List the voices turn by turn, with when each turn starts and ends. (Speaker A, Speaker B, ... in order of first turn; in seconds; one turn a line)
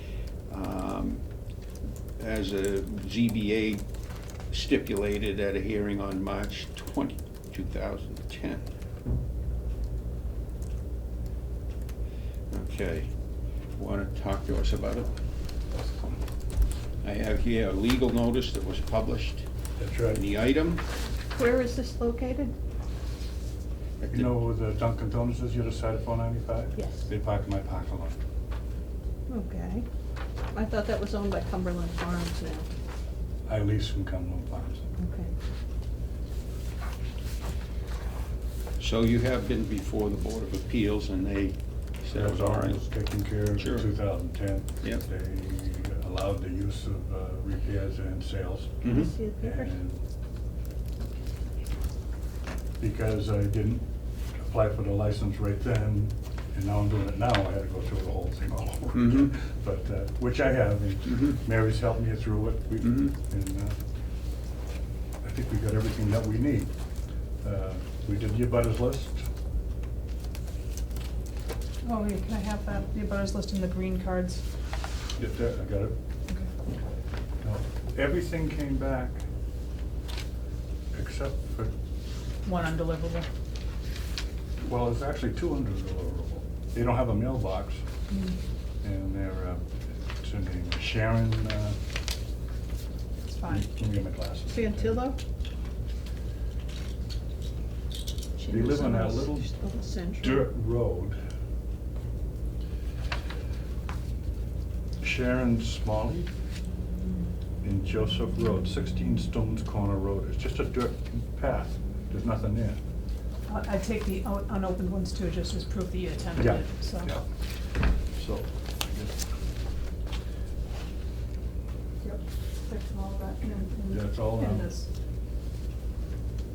Speaker A: 0.5-1.2
Speaker A: 2.2-3.8
Speaker A: 4.5-8.7
Speaker A: 12.5-13.1
Speaker A: 13.8-15.1
Speaker A: 17.0-19.5
Speaker B: 19.8-20.2
Speaker A: 20.1-20.8
Speaker C: 21.3-22.5
Speaker A: 24.0-24.3
Speaker B: 24.1-28.2
Speaker C: 26.8-27.1
Speaker C: 29.3-29.9
Speaker C: 30.5-32.7
Speaker B: 33.5-34.9
Speaker C: 35.0-35.3
Speaker A: 38.8-42.8
Speaker B: 42.1-50.0
Speaker A: 43.6-43.9
Speaker A: 48.8-49.1
Speaker C: 48.8-49.7
Speaker B: 52.8-53.8
Speaker B: 54.4-63.8
Speaker A: 59.0-59.3
Speaker A: 62.8-63.1
Speaker B: 65.2-66.7
Speaker B: 67.4-69.2
Speaker D: 71.8-74.4
Speaker B: 75.2-76.0
Speaker B: 77.4-79.2
Speaker B: 80.9-81.7
Speaker D: 82.5-83.3
Speaker B: 84.6-87.8
Speaker D: 88.1-88.4
Speaker B: 88.8-89.6
Speaker B: 90.2-91.8
Speaker D: 93.2-93.7
Speaker B: 93.5-95.0
Speaker C: 94.5-95.2
Speaker C: 98.4-100.5
Speaker B: 98.5-99.5
Speaker B: 100.2-101.2
Speaker B: 105.0-106.3
Speaker B: 107.6-112.8
Speaker D: 113.5-117.1
Speaker B: 116.4-117.2
Speaker B: 118.1-119.2
Speaker D: 122.0-124.9
Speaker B: 123.9-124.7